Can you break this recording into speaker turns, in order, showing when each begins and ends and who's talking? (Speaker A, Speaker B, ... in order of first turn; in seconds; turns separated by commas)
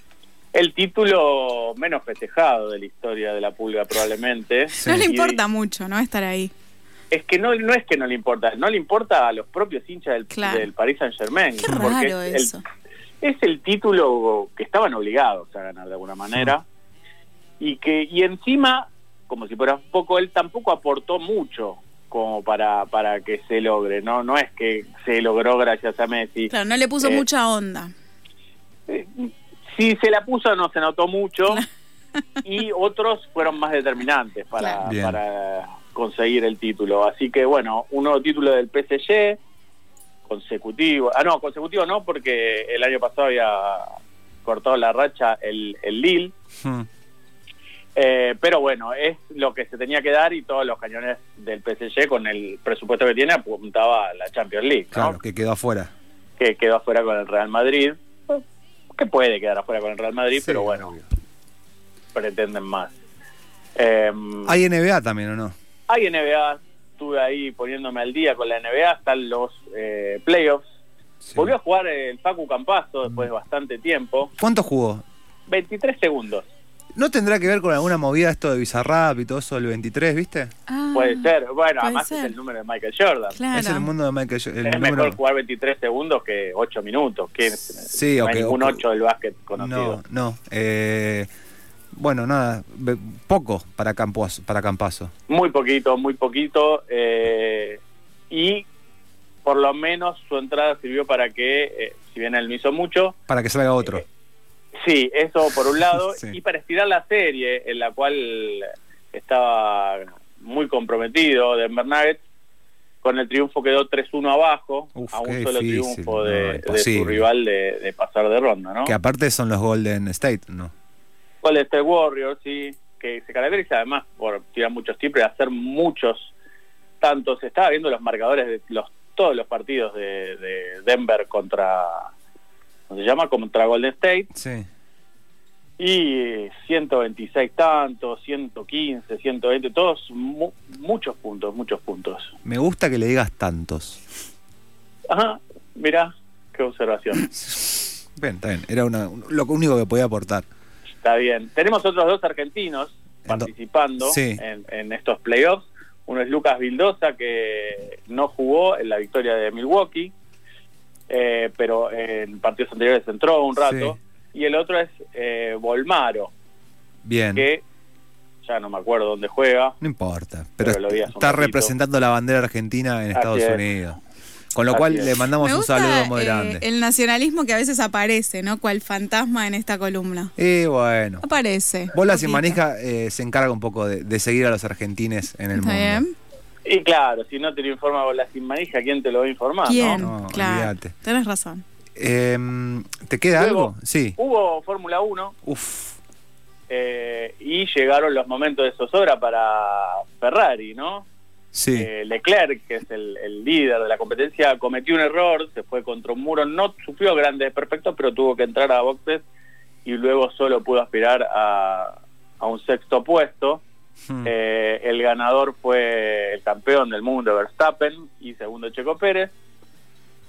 Speaker A: 0.5-5.4, Speaker B: 4.7-6.5, Speaker C: 4.8-5.1, Speaker A: 7.1-12.5, Speaker B: 10.3-10.7, Speaker B: 11.6-12.6, Speaker C: 11.6-11.9, Speaker A: 13.2-16.6, Speaker A: 17.6-27.2, Speaker B: 26.5-27.9, Speaker A: 28.9-31.6, Speaker A: 32.4-39.4, Speaker C: 34.9-35.2, Speaker A: 40.3-46.3, Speaker C: 46.6-46.9, Speaker A: 48.0-55.2, Speaker C: 54.9-55.9, Speaker A: 56.4-61.0, Speaker C: 60.4-61.0, Speaker A: 62.1-62.9, Speaker A: 63.8-64.6, Speaker C: 64.5-65.5, Speaker A: 65.9-70.7, Speaker C: 71.2-71.5, Speaker A: 71.3-74.3, Speaker C: 74.4-75.0, Speaker A: 75.5-76.5, Speaker C: 77.0-80.5, Speaker B: 80.7-82.3, Speaker A: 80.9-83.4, Speaker B: 83.3-83.9, Speaker C: 83.5-85.2, Speaker A: 84.7-90.0, Speaker C: 87.9-88.8, Speaker C: 89.6-91.3, Speaker C: 92.0-95.1, Speaker A: 95.3-98.7, Speaker A: 99.5-103.2, Speaker C: 103.3-104.0, Speaker A: 104.8-112.2, Speaker C: 106.1-106.4, Speaker A: 113.0-119.0, Speaker C: 115.0-117.2, Speaker C: 118.8-120.7, Speaker A: 121.4-126.3, Speaker A: 127.0-132.1, Speaker A: 132.9-134.3, Speaker C: 134.3-134.7, Speaker A: 135.8-142.3, Speaker C: 142.4-144.0, Speaker A: 145.1-147.3, Speaker C: 147.3-150.5, Speaker A: 151.0-160.1, Speaker C: 153.2-154.4, Speaker A: 161.1-166.3, Speaker C: 163.6-163.9, Speaker C: 167.1-167.5, Speaker A: 167.3-167.6, Speaker A: 168.4-169.8, Speaker C: 169.8-174.0, Speaker A: 170.6-171.7, Speaker A: 173.1-173.6, Speaker C: 174.5-176.6, Speaker A: 174.7-175.2, Speaker B: 175.4-180.3, Speaker C: 180.4-181.3, Speaker B: 181.2-182.6, Speaker C: 181.9-186.0, Speaker B: 185.6-186.1, Speaker A: 186.6-190.1, Speaker B: 189.7-191.6, Speaker C: 190.0-191.0, Speaker C: 192.0-194.2, Speaker A: 193.4-195.3, Speaker C: 195.4-196.0, Speaker A: 196.7-201.1, Speaker C: 201.5-201.9, Speaker A: 201.8-209.2, Speaker A: 209.8-213.6, Speaker A: 214.2-219.3